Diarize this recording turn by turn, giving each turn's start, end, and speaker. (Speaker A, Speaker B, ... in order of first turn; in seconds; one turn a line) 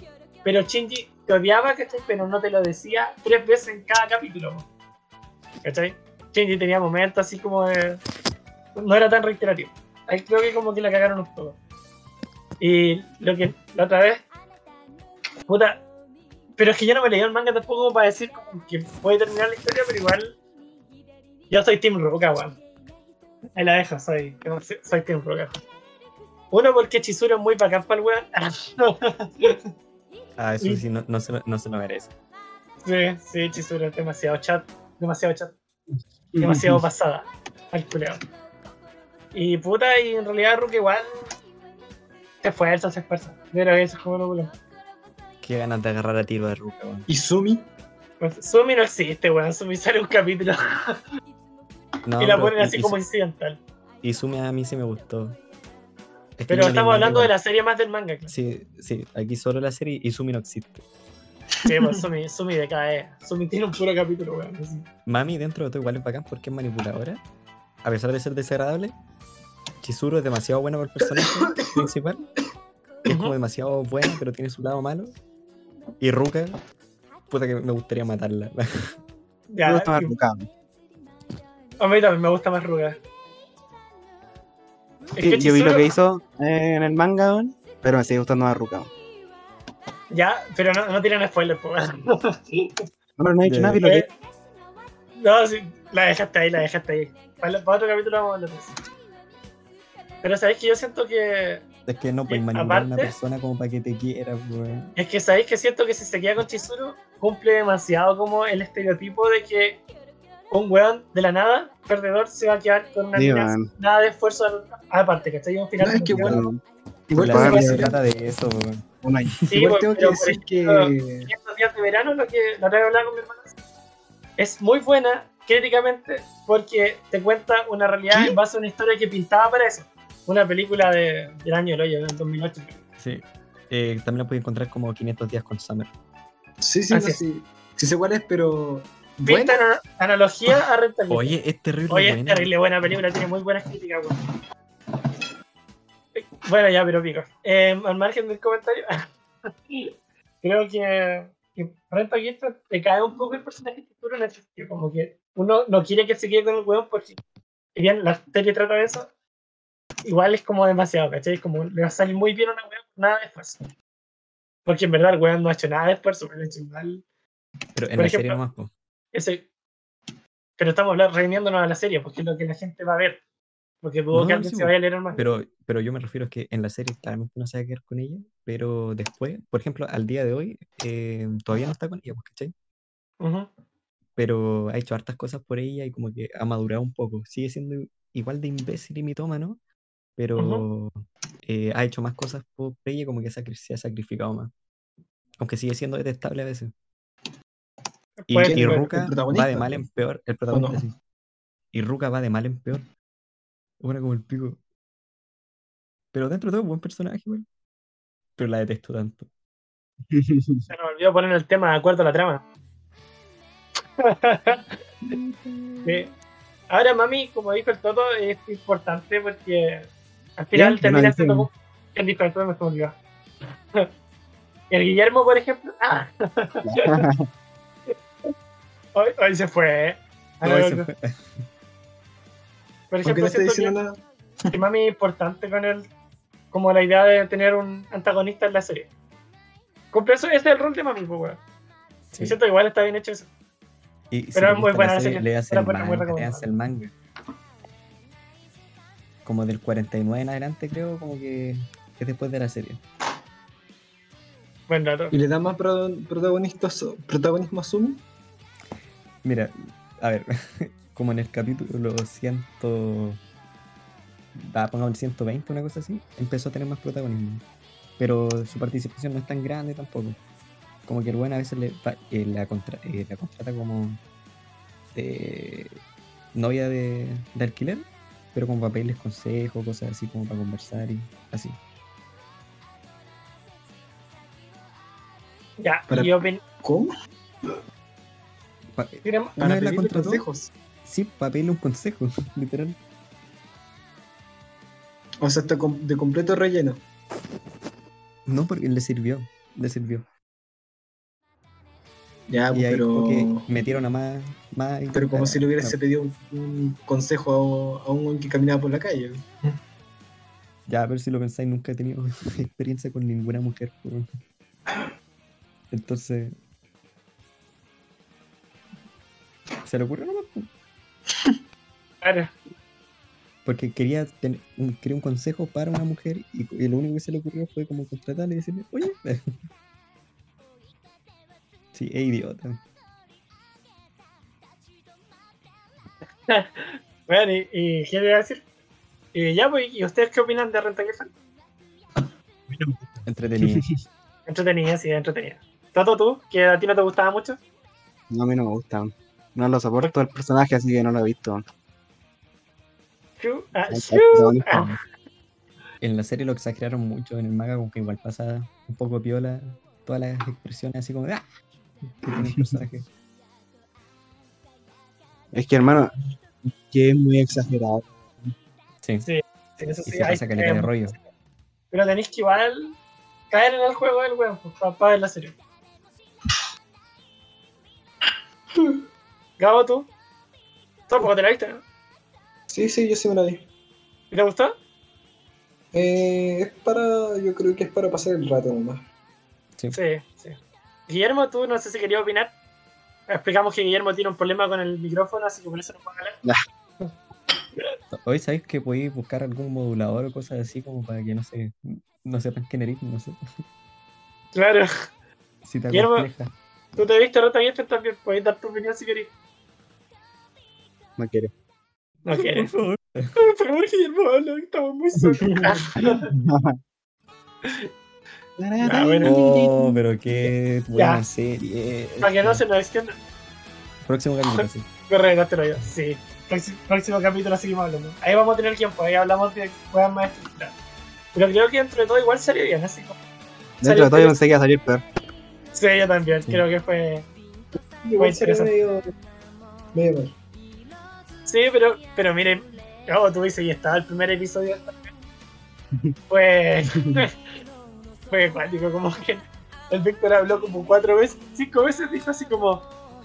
Speaker A: 0.4-4.7
Speaker A: 5.6-8.0
Speaker A: 8.7-11.6
Speaker A: 12.6-14.2
Speaker A: 15.4-15.8
Speaker A: 16.6-20.4
Speaker A: 21.5-22.6
Speaker A: 23.6-25.6
Speaker A: 26.5-29.6
Speaker B: 30.4-32.1
Speaker A: 32.8-35.5
Speaker A: 36.4-38.2
Speaker A: 39.3-41.1
Speaker A: 42.4-44.5
Speaker B: 45.4-47.0
Speaker C: 47.1-47.7
Speaker A: 48.2-51.0
Speaker B: 52.0-53.0
Speaker A: 52.2-53.6
Speaker B: 54.0-55.4
Speaker B: 56.4-57.3
Speaker A: 56.5-58.3
Speaker B: 58.3-60.8
Speaker A: 61.6-64.8
Speaker C: 61.7-62.0
Speaker B: 65.0-67.2
Speaker B: 67.8-68.9
Speaker B: 69.8-72.2
Speaker C: 71.2-71.8
Speaker B: 73.0-75.2
Speaker A: 73.1-73.3
Speaker B: 76.0-76.6
Speaker B: 77.3-78.9
Speaker A: 79.5-80.1
Speaker D: 79.6-80.5
Speaker A: 81.8-83.0
Speaker A: 85.2-85.8
Speaker D: 85.2-88.9
Speaker A: 90.1-92.7
Speaker D: 93.2-94.1
Speaker B: 93.4-93.8
Speaker A: 93.8-94.1
Speaker A: 95.2-98.7
Speaker A: 100.2-101.6
Speaker B: 101.9-104.9
Speaker A: 102.3-103.1
Speaker A: 105.0-109.8
Speaker A: 110.5-116.4
Speaker D: 113.1-113.7
Speaker C: 115.8-116.5
Speaker D: 116.1-116.6
Speaker C: 117.1-118.0
Speaker D: 117.1-118.0
Speaker B: 117.2-119.3
Speaker D: 119.0-119.3
Speaker A: 119.5-123.5
Speaker C: 119.5-121.3
Speaker A: 124.4-132.8
Speaker B: 133.0-135.9
Speaker C: 136.6-139.6
Speaker A: 136.9-137.2
Speaker A: 139.2-141.3
Speaker B: 141.1-142.5
Speaker A: 141.9-144.2
Speaker A: 146.1-149.1
Speaker A: 150.4-157.2
Speaker A: 157.7-159.1
Speaker A: 160.0-163.6
Speaker A: 164.7-167.0
Speaker B: 167.7-168.7
Speaker A: 168.0-168.4
Speaker A: 169.1-169.4
Speaker A: 170.6-173.2
Speaker A: 173.8-175.2
Speaker B: 174.1-182.5
Speaker A: 183.2-183.5
Speaker B: 184.2-189.6
Speaker B: 190.2-194.5
Speaker A: 190.4-190.6
Speaker B: 195.4-196.7
Speaker A: 198.2-198.9
Speaker B: 198.3-200.9
Speaker C: 198.4-199.8
Speaker C: 200.5-200.8
Speaker B: 201.7-202.9
Speaker B: 203.8-204.6
Speaker B: 206.1-207.4
Speaker B: 208.4-209.3
Speaker D: 210.1-210.7
Speaker A: 210.7-212.4
Speaker A: 214.0-214.8
Speaker A: 215.8-216.1
Speaker A: 216.7-222.9
Speaker D: 220.5-221.5
Speaker A: 224.7-227.1
Speaker D: 226.6-227.3
Speaker A: 228.9-230.9
Speaker B: 230.4-231.4
Speaker A: 232.9-233.7
Speaker C: 233.0-234.5
Speaker A: 234.5-235.8
Speaker A: 236.5-238.9
Speaker A: 239.9-241.4
Speaker A: 242.2-243.3
Speaker B: 244.1-246.9
Speaker A: 244.3-246.5
Speaker B: 249.2-252.8
Speaker A: 254.7-255.1
Speaker C: 255.1-258.0
Speaker B: 259.2-263.2
Speaker B: 264.4-267.4
Speaker B: 268.0-270.2
Speaker B: 270.9-274.0
Speaker B: 274.9-275.8
Speaker B: 276.3-281.6
Speaker A: 285.6-286.4
Speaker C: 285.9-286.9
Speaker B: 288.7-290.2
Speaker A: 289.0-289.4
Speaker C: 289.4-290.5
Speaker B: 290.8-292.8
Speaker C: 295.2-296.8
Speaker B: 298.3-300.1
Speaker C: 302.3-303.5
Speaker B: 302.5-305.8
Speaker C: 304.9-309.2
Speaker B: 310.7-314.1
Speaker B: 315.7-316.3
Speaker B: 319.6-320.5
Speaker A: 322.0-322.3
Speaker B: 323.4-329.2
Speaker B: 331.7-332.6
Speaker A: 336.3-338.4
Speaker A: 339.1-341.1
Speaker D: 342.5-343.6
Speaker B: 343.1-343.6
Speaker A: 344.3-347.4
Speaker D: 348.1-351.4
Speaker A: 353.2-354.7
Speaker D: 353.7-354.8
Speaker B: 355.8-361.2
Speaker B: 362.0-362.8
Speaker D: 362.1-362.6
Speaker D: 365.3-368.3
Speaker B: 368.8-369.1
Speaker A: 369.0-370.7
Speaker B: 369.9-370.9
Speaker A: 371.7-372.8
Speaker A: 373.3-375.3
Speaker C: 378.5-378.8
Speaker A: 379.4-379.9
Speaker A: 380.9-381.6
Speaker C: 382.5-383.5
Speaker A: 384.1-384.5
Speaker C: 385.7-388.8
Speaker A: 389.7-390.4
Speaker A: 390.9-392.3
Speaker A: 393.1-396.2
Speaker B: 397.9-403.1
Speaker A: 404.3-404.7
Speaker B: 405.4-406.3
Speaker A: 405.7-406.1
Speaker A: 406.8-409.1
Speaker D: 411.0-411.3
Speaker A: 412.0-412.5
Speaker B: 412.3-413.1
Speaker A: 413.2-416.1
Speaker C: 415.2-415.5
Speaker D: 416.0-416.6
Speaker D: 418.4-420.3
Speaker A: 418.6-419.1
Speaker B: 419.0-422.4
Speaker A: 420.8-421.0
Speaker A: 422.0-422.9
Speaker B: 423.9-424.6
Speaker A: 424.3-430.5
Speaker A: 431.1-432.9
Speaker D: 433.6-434.8
Speaker A: 433.6-434.1
Speaker A: 435.5-437.1
Speaker C: 437.8-438.9
Speaker A: 438.0-438.5
Speaker C: 439.7-440.1
Speaker A: 441.2-444.8
Speaker A: 446.1-447.1
Speaker A: 448.1-452.6